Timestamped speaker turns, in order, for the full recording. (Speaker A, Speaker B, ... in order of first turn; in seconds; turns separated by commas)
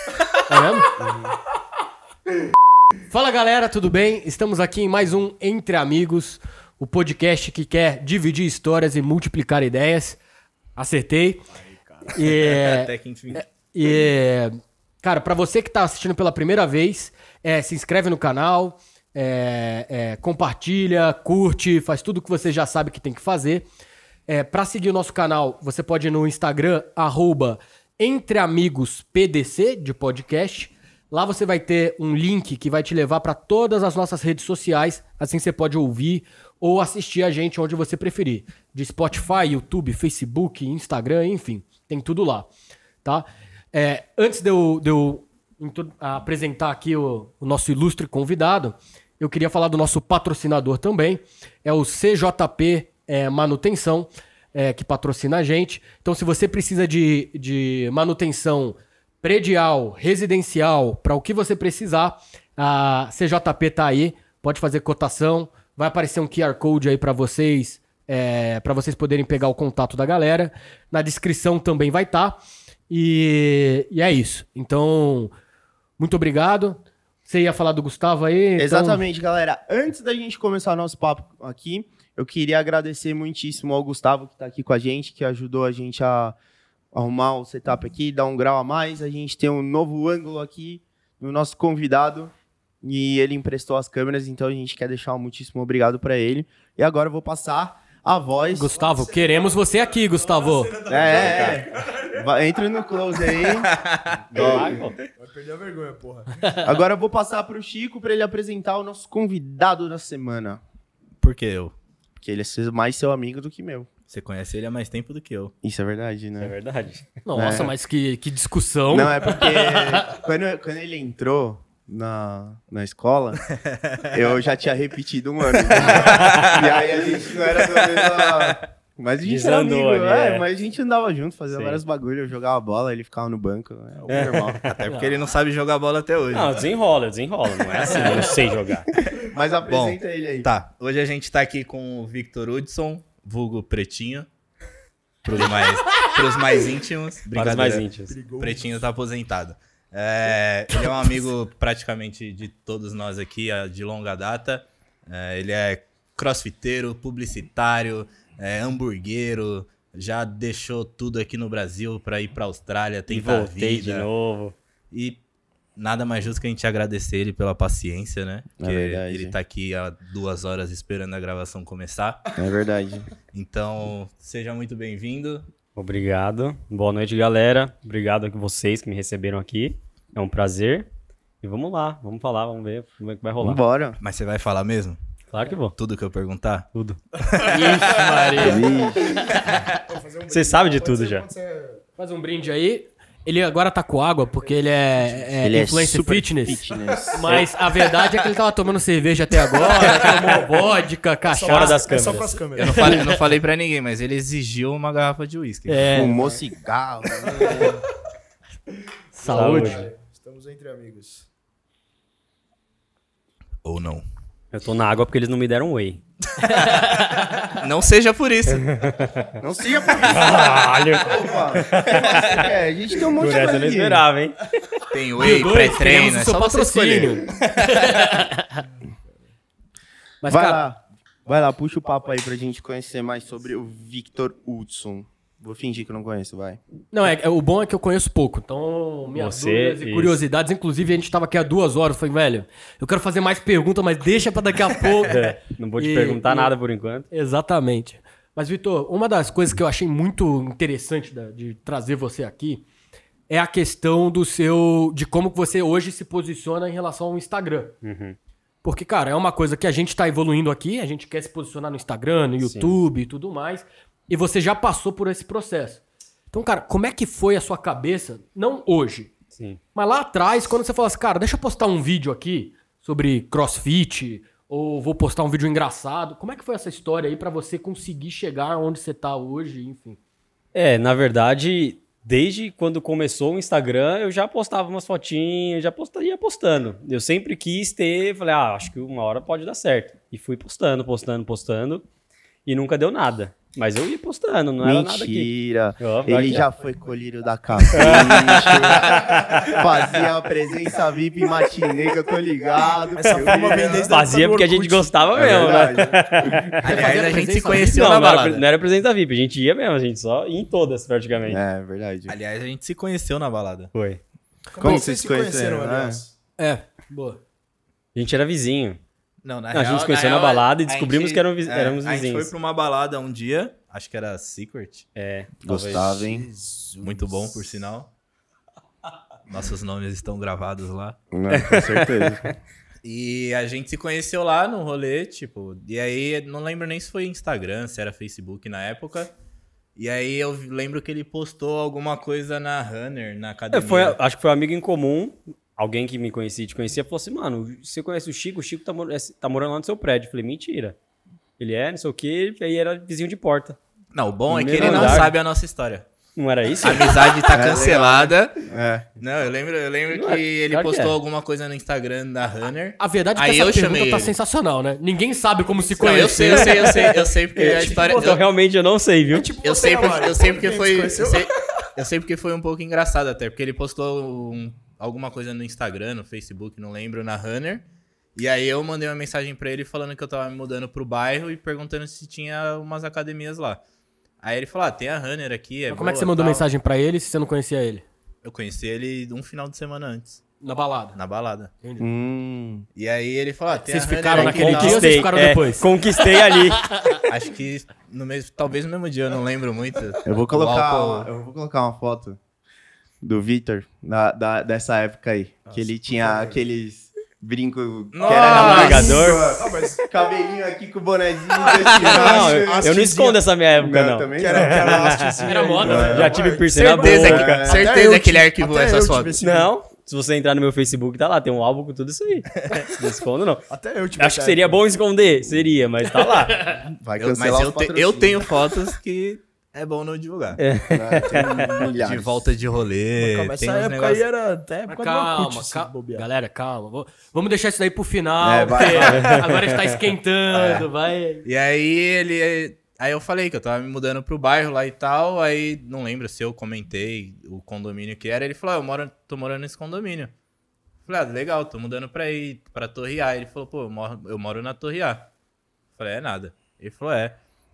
Speaker A: 0.5-0.9, Speaker A: 3.1-10.2, Speaker A: 10.8-11.4, Speaker B: 11.7-12.1, Speaker A: 12.1-23.6, Speaker C: 12.2-13.4, Speaker A: 24.3-42.5, Speaker A: 43.0-72.4, Speaker A: 72.9-75.3, Speaker A: 76.0-79.0, Speaker D: 78.6-86.3, Speaker D: 86.9-98.7, Speaker A: 98.5-100.8, Speaker B: 98.7-102.1, Speaker D: 100.9-103.7, Speaker E: 101.0-101.6, Speaker C: 103.4-104.5, Speaker E: 104.3-105.0, Speaker D: 104.3-104.8, Speaker B: 105.2-106.5, Speaker D: 106.6-110.6, Speaker C: 111.2-111.7, Speaker D: 112.2-113.9, Speaker C: 114.1-115.5, Speaker D: 115.6-116.5, Speaker E: 116.4-117.6, Speaker A: 117.2-120.0, Speaker D: 117.3-117.7, Speaker D: 118.9-123.4, Speaker C: 123.5-124.2, Speaker D: 124.0-134.6, Speaker C: 125.8-128.6, Speaker E: 125.9-126.5, Speaker E: 129.2-130.5, Speaker E: 131.5-131.8, Speaker B: 134.1-134.3, Speaker E: 134.1-134.8, Speaker C: 134.6-136.7, Speaker E: 136.3-138.9, Speaker C: 137.9-138.2, Speaker D: 139.0-140.5, Speaker C: 139.7-144.3, Speaker C: 145.2-164.1, Speaker E: 147.3-148.2, Speaker B: 148.1-148.9, Speaker E: 163.1-164.6, Speaker C: 164.9-165.2, Speaker C: 165.8-172.2, Speaker D: 168.6-169.3, Speaker D: 172.3-173.1, Speaker C: 173.3-175.5, Speaker E: 175.8-180.9, Speaker E: 181.4-183.6, Speaker D: 183.4-184.0, Speaker C: 184.0-185.0, Speaker E: 185.3-185.8, Speaker C: 185.8-186.7, Speaker E: 186.7-187.0, Speaker C: 187.3-188.0, Speaker A: 187.4-189.2, Speaker B: 188.2-191.8, Speaker D: 188.4-189.1, Speaker E: 190.3-191.2, Speaker A: 192.0-201.8, Speaker D: 195.4-197.3, Speaker B: 201.3-203.0, Speaker E: 201.4-202.4, Speaker C: 202.6-206.0, Speaker A: 202.7-203.0, Speaker A: 205.7-206.4, Speaker D: 205.9-207.7, Speaker B: 207.3-207.6, Speaker A: 209.2-209.9, Speaker B: 209.2-211.3, Speaker E: 209.3-209.9, Speaker C: 213.6-214.0, Speaker E: 214.5-216.0, Speaker A: 216.4-217.5, Speaker C: 217.5-218.7, Speaker E: 218.5-219.3, Speaker D: 219.4-224.0, Speaker E: 220.0-222.5, Speaker E: 223.0-224.4, Speaker C: 224.9-228.1, Speaker A: 225.2-228.6, Speaker A: 230.2-230.6, Speaker D: 230.2-236.6, Speaker A: 236.9-246.5, Speaker E: 239.1-240.2, Speaker E: 245.0-247.1, Speaker A: 247.1-252.6, Speaker A: 253.3-257.7, Speaker E: 257.8-258.1, Speaker A: 258.6-269.1, Speaker E: 262.4-262.8, Speaker E: 269.3-269.6, Speaker A: 269.7-280.0, Speaker E: 280.5-291.8, Speaker E: 292.4-296.5, Speaker D: 294.6-303.9, Speaker E: 297.7-298.8, Speaker C: 298.4-298.8, Speaker B: 302.9-304.9, Speaker E: 303.9-306.6, Speaker D: 305.1-306.9, Speaker C: 306.6-308.4, Speaker A: 306.7-307.9, Speaker E: 307.7-311.4, Speaker D: 311.2-312.1, Speaker C: 312.1-313.7, Speaker E: 313.7-314.0, Speaker B: 314.5-316.1, Speaker D: 314.6-316.0, Speaker A: 316.4-317.2, Speaker E: 317.9-318.8, Speaker C: 319.2-324.9, Speaker E: 319.5-322.3, Speaker E: 324.9-326.0, Speaker D: 325.4-326.2, Speaker B: 325.9-327.7, Speaker C: 326.8-327.9, Speaker C: 329.3-331.0, Speaker D: 331.1-332.3, Speaker E: 331.3-332.3, Speaker C: 332.8-339.1, Speaker C: 339.8-344.0, Speaker E: 343.5-350.8, Speaker E: 351.4-353.6, Speaker C: 353.9-355.9, Speaker E: 354.3-355.1, Speaker D: 354.6-355.1, Speaker E: 356.1-357.1, Speaker C: 356.6-358.5, Speaker D: 357.3-358.9, Speaker C: 359.0-364.1, Speaker E: 359.9-361.0, Speaker A: 362.8-366.9, Speaker C: 365.8-368.2, Speaker E: 366.5-366.9, Speaker B: 367.4-368.2, Speaker A: 367.5-367.8, Speaker E: 367.5-369.4, Speaker B: 369.1-371.3, Speaker C: 369.4-383.6, Speaker C: 384.2-386.5, Speaker A: 385.7-387.9, Speaker C: 388.2-390.2, Speaker A: 390.4-391.0, Speaker C: 390.9-391.5, Speaker A: 391.6-391.9, Speaker D: 391.8-392.6, Speaker C: 392.7-395.1, Speaker A: 393.5-397.0, Speaker E: 394.1-396.8, Speaker D: 394.1-394.7, Speaker C: 397.1-401.1, Speaker D: 400.1-402.2, Speaker D: 403.0-412.7, Speaker B: 405.5-406.4, Speaker C: 407.9-408.9, Speaker B: 408.0-409.9, Speaker E: 408.1-409.3, Speaker B: 411.5-413.2, Speaker C: 411.5-412.1, Speaker E: 411.9-417.4, Speaker D: 413.6-414.9, Speaker B: 414.1-419.5, Speaker A: 415.2-416.2, Speaker D: 415.6-416.2, Speaker C: 416.6-419.2, Speaker D: 416.9-417.7, Speaker E: 419.2-426.6, Speaker B: 423.5-424.6, Speaker D: 426.5-428.2, Speaker C: 427.0-430.4, Speaker E: 430.4-431.7, Speaker D: 430.7-432.2, Speaker C: 431.7-434.1, Speaker B: 432.9-436.1, Speaker A: 434.7-441.2, Speaker D: 438.2-439.1, Speaker E: 438.9-439.8, Speaker C: 440.4-440.6, Speaker C: 441.2-450.1, Speaker C: 450.8-455.1, Speaker C: 455.7-457.2